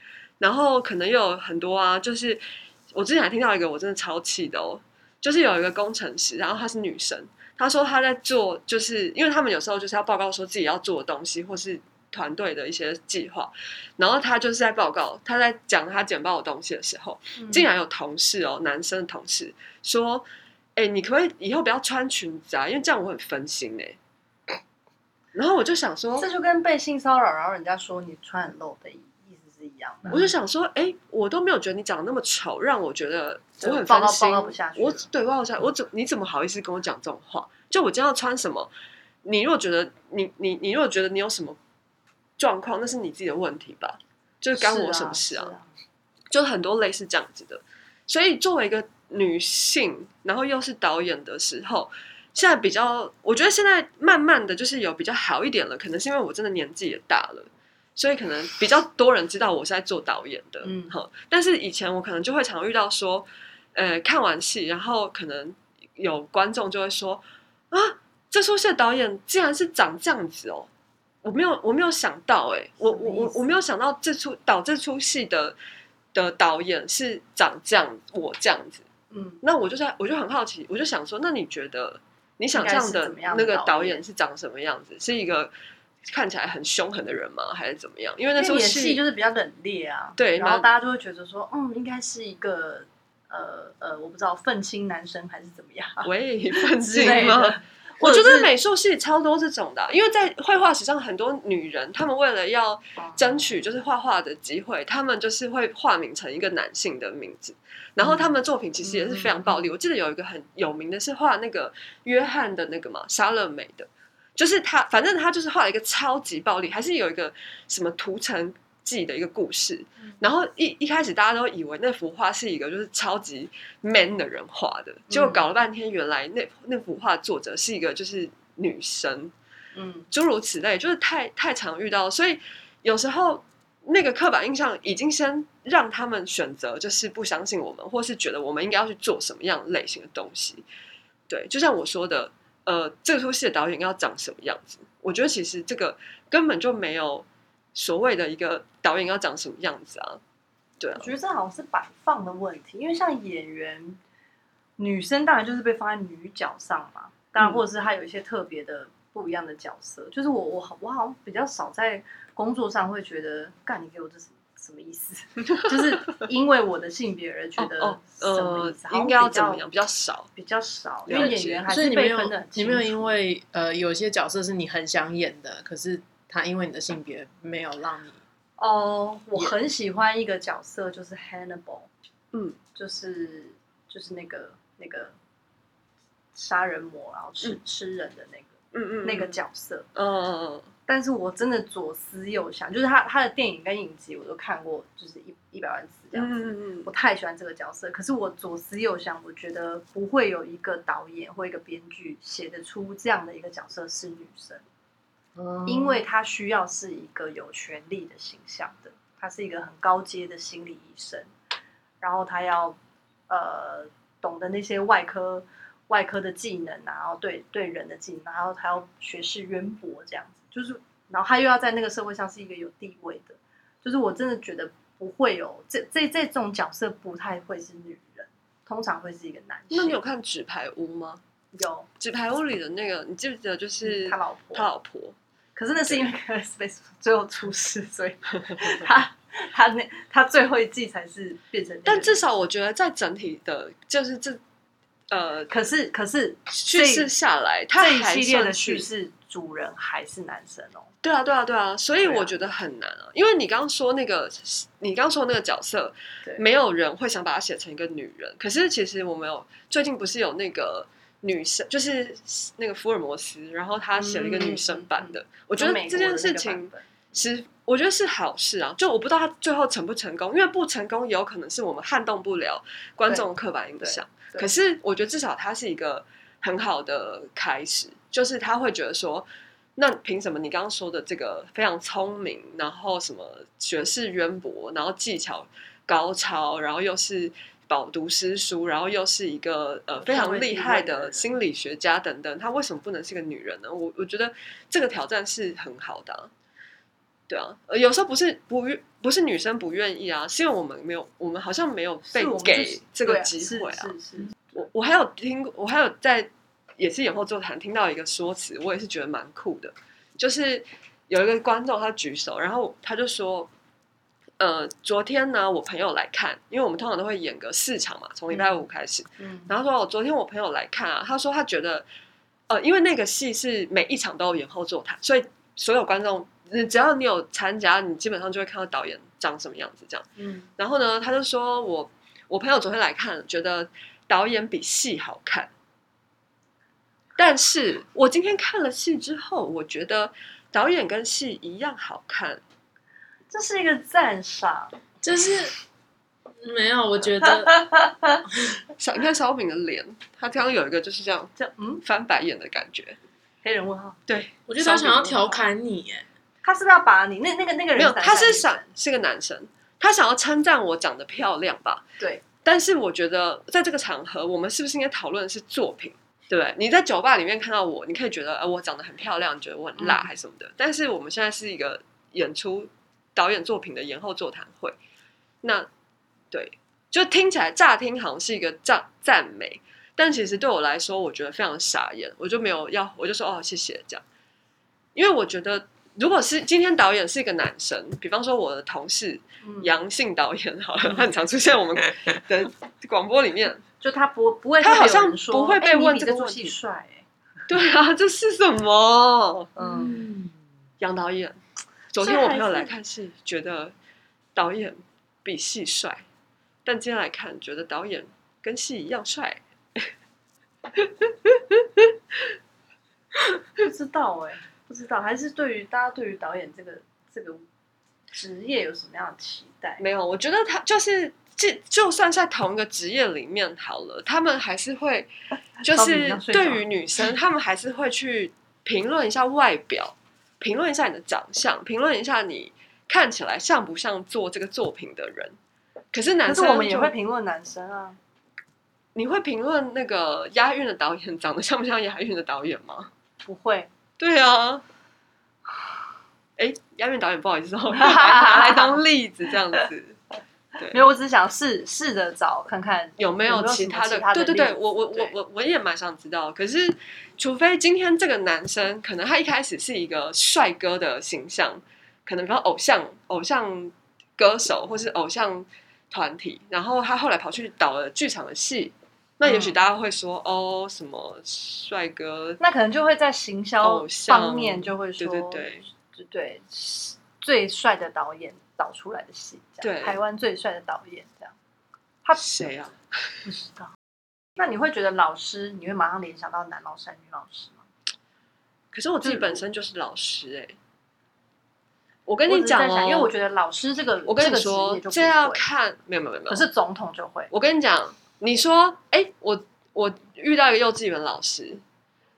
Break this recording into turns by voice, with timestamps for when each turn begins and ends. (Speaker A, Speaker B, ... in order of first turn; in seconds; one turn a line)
Speaker A: 0.4-24.0
Speaker B: 17.4-17.7
Speaker A: 25.3-26.3
Speaker B: 26.2-30.2
Speaker A: 30.1-38.7
Speaker B: 33.6-35.0
Speaker A: 39.2-41.6
Speaker A: 42.4-45.5
Speaker B: 44.5-45.6
Speaker A: 46.3-70.7
Speaker B: 60.6-61.0
Speaker A: 71.2-75.5
Speaker B: 72.9-73.5
Speaker A: 76.1-78.8
Speaker B: 79.1-79.4
Speaker A: 79.4-85.5
Speaker B: 82.5-84.0
Speaker A: 86.1-89.0
Speaker B: 88.3-98.5
Speaker A: 90.2-90.7
Speaker A: 96.0-129.3
Speaker B: 103.0-103.6
Speaker B: 108.0-108.3
Speaker B: 108.8-109.6
Speaker B: 125.1-125.4
Speaker B: 129.7-130.1
Speaker A: 130.1-140.6
Speaker A: 141.3-150.2
Speaker A: 150.8-151.1
Speaker B: 150.9-154.0
Speaker B: 154.8-169.6
Speaker A: 167.6-170.3
Speaker B: 170.3-173.1
Speaker A: 171.1-171.7
Speaker C: 171.1-178.2
Speaker B: 178.6-181.9
Speaker A: 182.3-182.6
Speaker B: 182.7-185.1
Speaker B: 186.3-189.9
Speaker A: 188.7-189.4
Speaker A: 189.9-190.7
Speaker B: 190.9-204.6
Speaker A: 196.1-196.9
Speaker C: 205.3-206.0
Speaker B: 205.7-211.3
Speaker B: 212.0-212.8
Speaker B: 213.3-230.0
Speaker A: 229.7-231.2
Speaker B: 231.5-231.9
Speaker A: 232.0-235.2
Speaker B: 233.8-234.7
Speaker B: 235.6-242.2
Speaker A: 241.8-244.4
Speaker A: 245.1-245.7
Speaker B: 245.5-247.1
Speaker A: 246.5-248.9
Speaker B: 247.8-250.9
Speaker A: 251.0-296.3
Speaker B: 252.0-252.3
Speaker B: 264.0-266.8
Speaker B: 273.8-274.5
Speaker B: 290.0-291.3
Speaker A: 297.3-303.9
Speaker B: 302.1-304.3
Speaker A: 304.5-313.5
Speaker A: 314.4-321.9
Speaker B: 318.3-318.6
Speaker B: 319.2-319.5
Speaker A: 322.5-330.1
Speaker B: 330.2-330.5
Speaker A: 330.6-335.5
Speaker A: 337.2-342.4
Speaker B: 343.3-344.8
Speaker C: 345.0-345.5
Speaker C: 346.4-347.9
Speaker B: 347.2-347.9
Speaker A: 348.8-351.3
Speaker B: 351.4-351.8
Speaker A: 351.8-353.0
Speaker B: 353.4-354.0
Speaker A: 354.1-355.4
Speaker C: 354.5-356.1
Speaker B: 356.4-358.7
Speaker A: 357.7-361.8
Speaker A: 362.4-374.8
Speaker B: 369.8-370.1
Speaker A: 375.4-375.7
Speaker A: 376.3-384.0
Speaker A: 384.9-393.6
Speaker B: 389.4-389.7
Speaker B: 393.8-397.1
Speaker A: 394.6-396.5
Speaker A: 397.5-399.5
Speaker B: 399.6-400.0
Speaker C: 399.6-400.3
Speaker A: 400.8-401.4
Speaker A: 401.9-403.7
Speaker B: 402.0-402.7
Speaker A: 404.3-406.0
Speaker A: 406.6-409.9
Speaker A: 410.7-412.3
Speaker B: 413.6-417.4
Speaker B: 418.1-419.8
Speaker A: 419.8-425.1
Speaker B: 425.6-426.6
Speaker A: 425.6-435.4
Speaker A: 435.9-436.9
Speaker B: 436.2-438.0
Speaker A: 438.9-442.9
Speaker B: 443.2-443.7
Speaker A: 444.0-444.6
Speaker A: 446.4-450.0
Speaker B: 447.7-448.8
Speaker A: 450.6-450.9
Speaker B: 450.7-455.1
Speaker A: 453.0-472.4
Speaker B: 469.2-469.6
Speaker B: 472.4-481.3
Speaker A: 473.6-475.6
Speaker A: 479.6-480.0
Speaker A: 482.2-483.2
Speaker B: 483.2-483.7
Speaker B: 484.4-487.6
Speaker A: 488.7-490.6
Speaker B: 489.0-489.4
Speaker A: 492.1-493.1
Speaker B: 492.3-495.4
Speaker A: 494.0-496.4
Speaker B: 496.3-497.3
Speaker A: 497.3-501.6